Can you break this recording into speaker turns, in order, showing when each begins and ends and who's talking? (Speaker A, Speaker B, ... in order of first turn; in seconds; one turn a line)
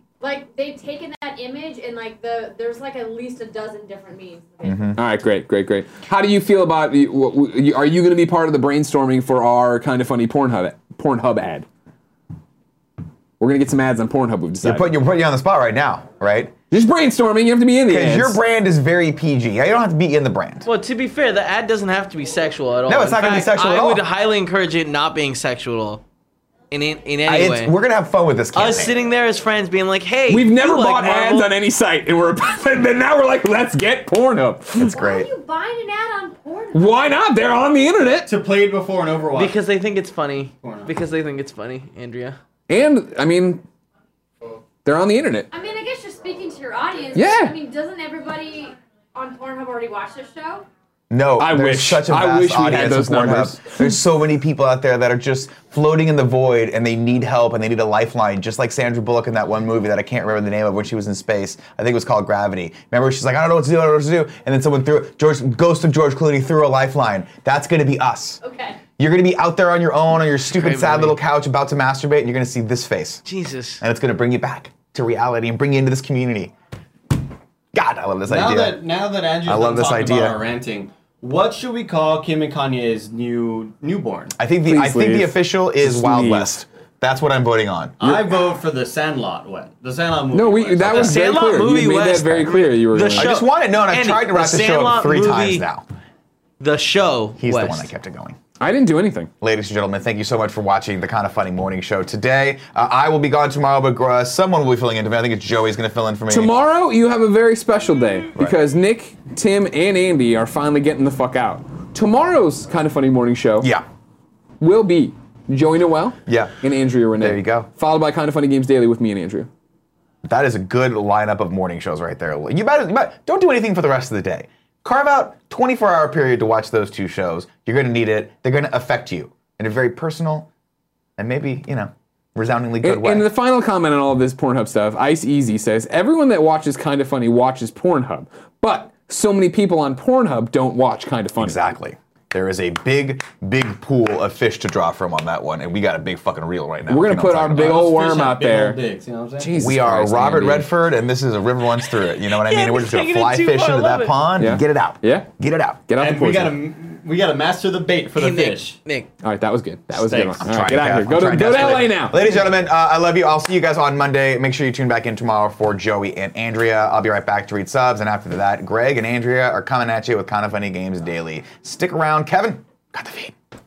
Speaker A: 0.2-4.9
Speaker B: 4.6-5.0
Speaker C: 5.0-11.7
Speaker C: 13.4-15.0
Speaker B: 14.6-16.5
Speaker C: 16.7-18.4
Speaker B: 17.9-20.7
Speaker D: 20.6-26.0
Speaker B: 22.9-24.0
Speaker D: 26.7-27.7
Speaker B: 27.2-29.0
Speaker D: 28.5-31.5
Speaker C: 30.3-35.0
Speaker B: 34.8-35.3
Speaker A: 34.9-37.0
Speaker C: 36.7-38.3
Speaker E: 38.3-39.6
Speaker D: 39.3-42.4
Speaker E: 40.6-40.9
Speaker C: 42.7-43.6
Speaker C: 44.8-45.5
Speaker A: 45.5-50.7
Speaker C: 47.1-47.6
Speaker B: 51.1-68.4
Speaker C: 51.4-53.9
Speaker A: 68.4-68.8
Speaker B: 69.0-73.2
Speaker D: 70.5-71.2
Speaker D: 73.2-73.8
Speaker B: 73.8-76.5
Speaker B: 77.7-78.9
Speaker E: 78.3-84.3
Speaker B: 79.4-80.4
Speaker B: 84.4-88.3
Speaker C: 84.6-86.6
Speaker E: 88.0-91.3
Speaker C: 90.3-93.3
Speaker D: 90.9-95.7
Speaker B: 93.1-95.9
Speaker D: 96.6-97.9
Speaker B: 97.4-98.4
Speaker C: 98.6-99.3
Speaker B: 99.4-106.5
Speaker C: 106.3-113.7
Speaker B: 113.6-113.8
Speaker C: 114.6-119.5
Speaker B: 116.3-116.6
Speaker B: 117.2-117.7
Speaker B: 120.2-130.5
Speaker B: 131.2-133.3
Speaker C: 132.8-141.6
Speaker B: 141.4-147.8
Speaker C: 146.9-148.8
Speaker E: 147.6-149.5
Speaker C: 149.4-150.7
Speaker B: 149.5-155.9
Speaker D: 152.2-154.2
Speaker C: 154.4-155.3
Speaker C: 155.9-156.6
Speaker E: 156.0-158.8
Speaker D: 158.1-159.1
Speaker C: 159.2-162.3
Speaker E: 159.9-160.4
Speaker B: 160.4-173.4